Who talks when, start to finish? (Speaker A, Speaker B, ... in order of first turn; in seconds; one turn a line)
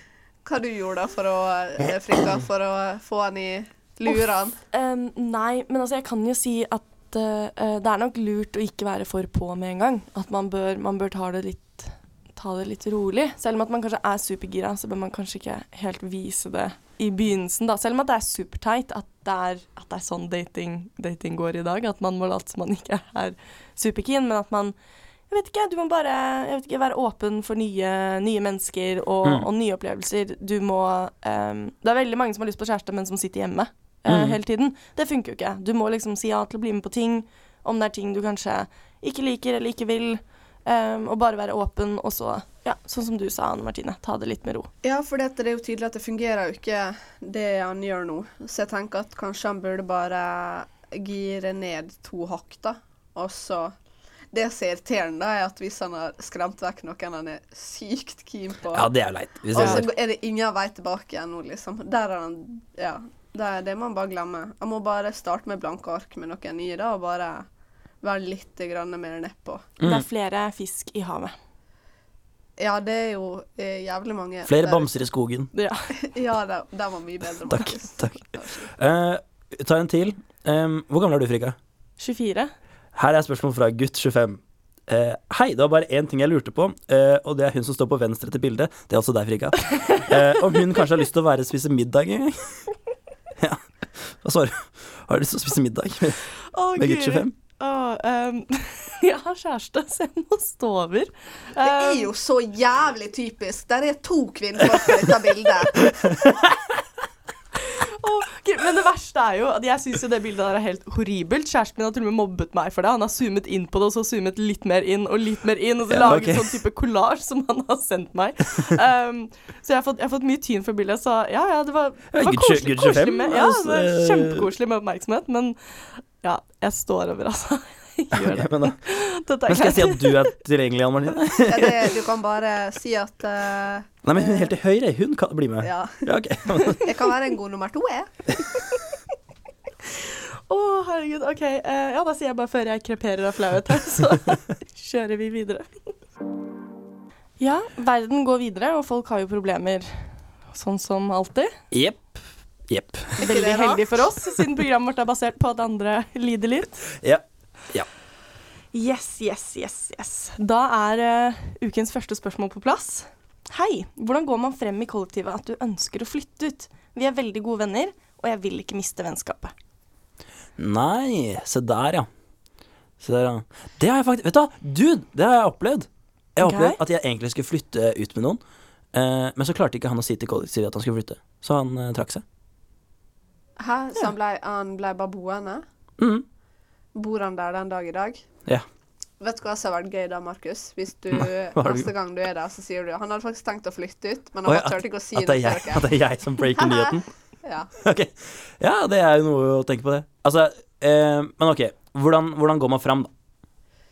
Speaker A: 0.5-4.6
Speaker B: 4.7-24.7
Speaker B: 25.3-44.7
Speaker C: 34.1-34.4
Speaker A: 44.8-53.7
Speaker A: 54.3-58.9
Speaker C: 58.7-59.9
Speaker A: 59.5-67.5
Speaker B: 59.6-59.8
Speaker A: 68.0-69.7
Speaker C: 69.8-70.0
Speaker B: 69.8-71.3
Speaker A: 72.6-75.0
Speaker C: 74.5-75.5
Speaker B: 75.5-75.9
Speaker A: 76.0-78.7
Speaker C: 77.5-78.1
Speaker C: 78.7-81.5
Speaker B: 82.0-82.5
Speaker C: 83.0-92.6
Speaker C: 93.4-96.2
Speaker B: 96.5-102.1
Speaker C: 96.8-97.3
Speaker A: 101.6-105.9
Speaker B: 107.7-130.3
Speaker C: 115.9-116.6
Speaker C: 122.1-124.5
Speaker C: 128.1-128.9
Speaker C: 129.5-131.9
Speaker A: 131.5-134.5
Speaker C: 134.0-136.9
Speaker A: 135.6-138.1
Speaker B: 140.1-145.7
Speaker B: 147.4-151.5
Speaker C: 151.7-152.0
Speaker C: 152.7-153.2
Speaker A: 153.2-153.9
Speaker B: 153.2-156.8
Speaker C: 157.0-157.9
Speaker B: 158.7-169.5
Speaker C: 170.6-172.1
Speaker C: 173.0-178.4
Speaker B: 176.4-176.8
Speaker C: 178.9-182.2
Speaker A: 183.6-185.6
Speaker C: 186.0-186.2
Speaker A: 186.9-188.2
Speaker A: 189.2-195.9
Speaker C: 191.1-191.9
Speaker C: 194.5-197.1
Speaker A: 196.6-197.7
Speaker C: 197.8-203.1